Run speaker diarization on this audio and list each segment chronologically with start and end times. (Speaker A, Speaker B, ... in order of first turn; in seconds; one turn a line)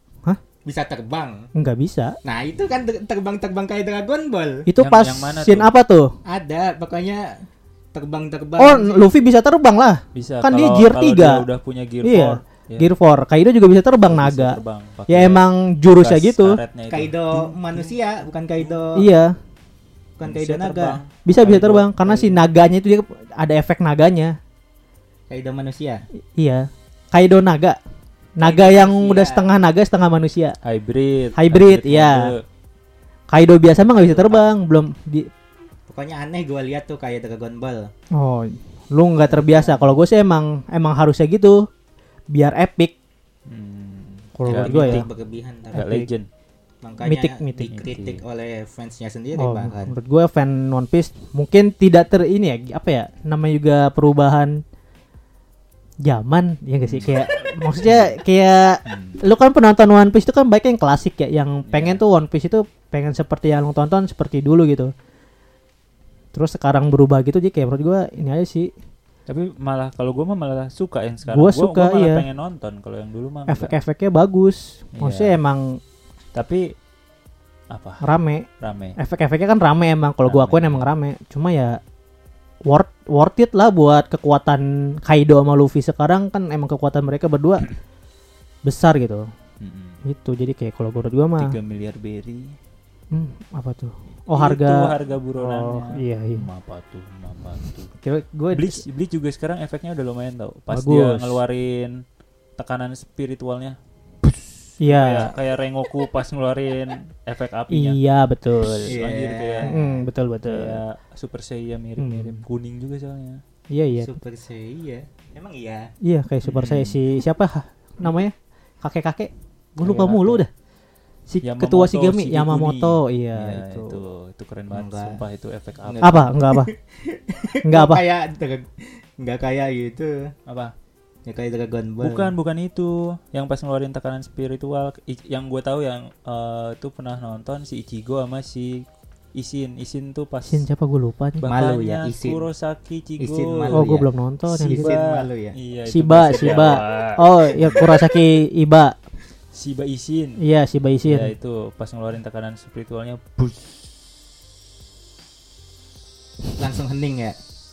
Speaker A: 0.7-1.4
Speaker B: 1.6-2.1
Speaker A: 2.2-4.7
Speaker B: 4.7-6.1
Speaker C: 4.8-5.7
Speaker A: 6.3-7.4
Speaker A: 7.9-9.0
Speaker B: 8.6-11.4
Speaker C: 10.2-12.9
Speaker B: 12.0-16.6
Speaker C: 14.1-15.4
Speaker C: 16.0-18.0
Speaker A: 16.9-19.1
Speaker B: 18.9-19.4
Speaker A: 20.2-21.0
Speaker C: 20.2-22.1
Speaker B: 21.2-24.4
Speaker A: 25.3-26.1
Speaker B: 26.4-27.8
Speaker B: 28.4-30.6
Speaker A: 28.4-29.5
Speaker C: 30.6-32.4
Speaker B: 31.4-32.2
Speaker B: 33.3-35.3
Speaker A: 33.9-34.4
Speaker A: 35.9-37.9
Speaker B: 38.2-41.7
Speaker A: 39.3-39.9
Speaker B: 42.3-42.9
Speaker C: 43.5-45.1
Speaker B: 44.4-45.1
Speaker A: 44.6-45.8
Speaker B: 45.7-46.1
Speaker C: 45.7-46.3
Speaker A: 46.8-49.9
Speaker B: 47.0-47.7
Speaker C: 47.7-48.2
Speaker B: 49.4-54.6
Speaker B: 56.0-64.9
Speaker C: 56.9-57.2
Speaker C: 57.8-58.1
Speaker C: 58.9-59.2
Speaker C: 61.7-62.0
Speaker B: 66.3-68.7
Speaker C: 69.3-73.7
Speaker B: 71.3-72.2
Speaker B: 73.5-75.8
Speaker C: 75.0-75.3
Speaker C: 76.3-76.7
Speaker C: 77.7-78.0
Speaker B: 78.0-78.5
Speaker C: 78.6-79.0
Speaker B: 79.0-81.8
Speaker C: 80.3-80.9
Speaker B: 82.7-87.7
Speaker B: 88.7-89.3
Speaker C: 89.6-90.0
Speaker B: 90.0-91.5
Speaker C: 91.4-92.5
Speaker B: 93.1-96.5
Speaker C: 94.3-97.9
Speaker B: 98.0-98.8
Speaker C: 98.5-102.0
Speaker B: 100.7-101.4
Speaker C: 102.6-108.0
Speaker B: 104.8-105.3
Speaker B: 107.7-109.0
Speaker C: 108.6-109.7
Speaker A: 108.9-110.0
Speaker B: 109.6-110.8
Speaker C: 110.5-113.4
Speaker B: 112.0-112.4
Speaker B: 113.7-114.1
Speaker A: 114.0-115.9
Speaker B: 116.0-120.5
Speaker C: 116.5-117.0
Speaker C: 119.8-120.5
Speaker B: 121.3-124.0
Speaker C: 121.4-126.3
Speaker A: 124.7-125.2
Speaker A: 125.8-130.3
Speaker B: 126.0-126.7
Speaker B: 127.7-128.0
Speaker C: 130.5-130.7
Speaker A: 131.3-132.3
Speaker C: 132.0-138.8
Speaker C: 139.4-140.6
Speaker B: 140.5-141.5
Speaker C: 141.4-143.8
Speaker A: 141.4-142.4
Speaker A: 143.2-145.6
Speaker B: 143.7-144.9
Speaker C: 144.8-147.8
Speaker B: 145.9-148.9
Speaker C: 149.5-150.4
Speaker B: 150.4-151.3
Speaker C: 151.1-153.9
Speaker A: 156.6-157.4